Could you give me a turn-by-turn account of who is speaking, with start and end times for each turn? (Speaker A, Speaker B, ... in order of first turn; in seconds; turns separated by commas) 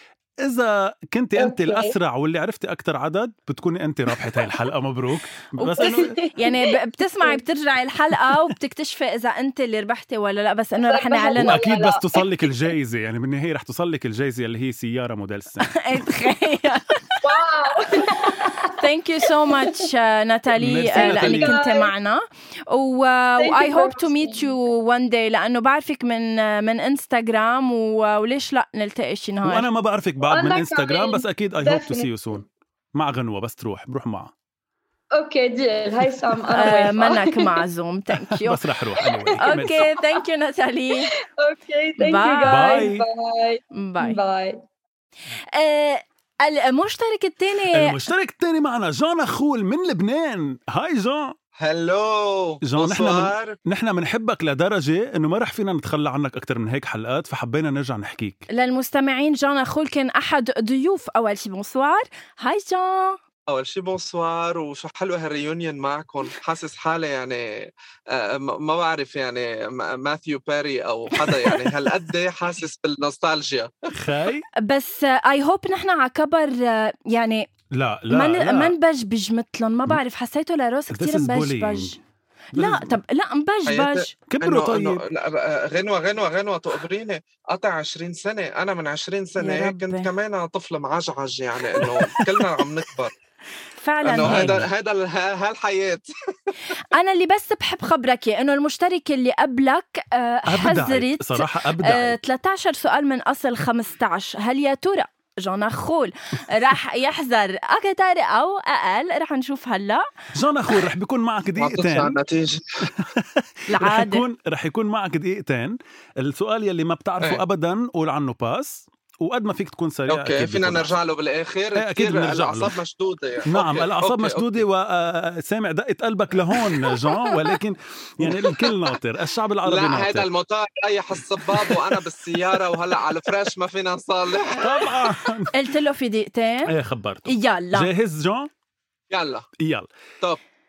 Speaker A: 0.4-6.2, Speaker B: 1.4-1.9, Speaker C: 5.6-11.6, Speaker B: 5.8-7.4, Speaker B: 10.8-12.4, Speaker A: 11.3-15.7, Speaker C: 15.7-17.2, Speaker B: 17.2-19.9, Speaker C: 18.1-29.7, Speaker A: 20.6-21.6, Speaker B: 20.9-21.9, Speaker B: 23.4-24.5, Speaker A: 29.4-34.3, Speaker B: 30.2-32.1, Speaker B: 35.1-37.6, Speaker C: 36.5-38.6, Speaker A: 38.1-39.9, Speaker B: 39.0-40.2, Speaker C: 39.4-41.1, Speaker B: 41.0-44.6, Speaker C: 42.0-42.9, Speaker A: 42.4-43.0, Speaker C: 43.7-44.2, Speaker C: 45.5-48.0, Speaker A: 47.7-51.3, Speaker D: 51.6-53.5, Speaker A: 52.6-58.4, Speaker C: 58.5-63.2, Speaker D: 63.5-73.7, Speaker A: 73.9-74.5, Speaker C: 74.6-77.5, Speaker A: 77.7-78.7, Speaker C: 78.1-82.0, Speaker A: 80.9-82.0, Speaker A: 82.5-82.9, Speaker C: 82.5-84.1, Speaker D: 83.7-93.1, Speaker A: 84.3-85.0, Speaker C: 89.4-90.1, Speaker A: 91.8-92.2, Speaker C: 93.8-94.6, Speaker D: 94.0-96.1, Speaker A: 94.2-94.7, Speaker C: 96.9-110.1, Speaker A: 100.5-102.2, Speaker A: 110.3-112.2, Speaker D: 111.6-112.9, Speaker A: 113.0-120.9, Speaker C: 113.7-114.2, Speaker D: 120.1-124.6, Speaker A: 121.8-122.7, Speaker A: 123.5-130.3, Speaker D: 128.2-128.7, Speaker D: 129.6-135.0, Speaker A: 131.5-131.9, Speaker A: 134.5-135.5, Speaker C: 135.5-136.7, Speaker A: 136.7-138.5, Speaker C: 137.3-137.9, Speaker D: 139.1-139.5, Speaker A: 139.6-139.9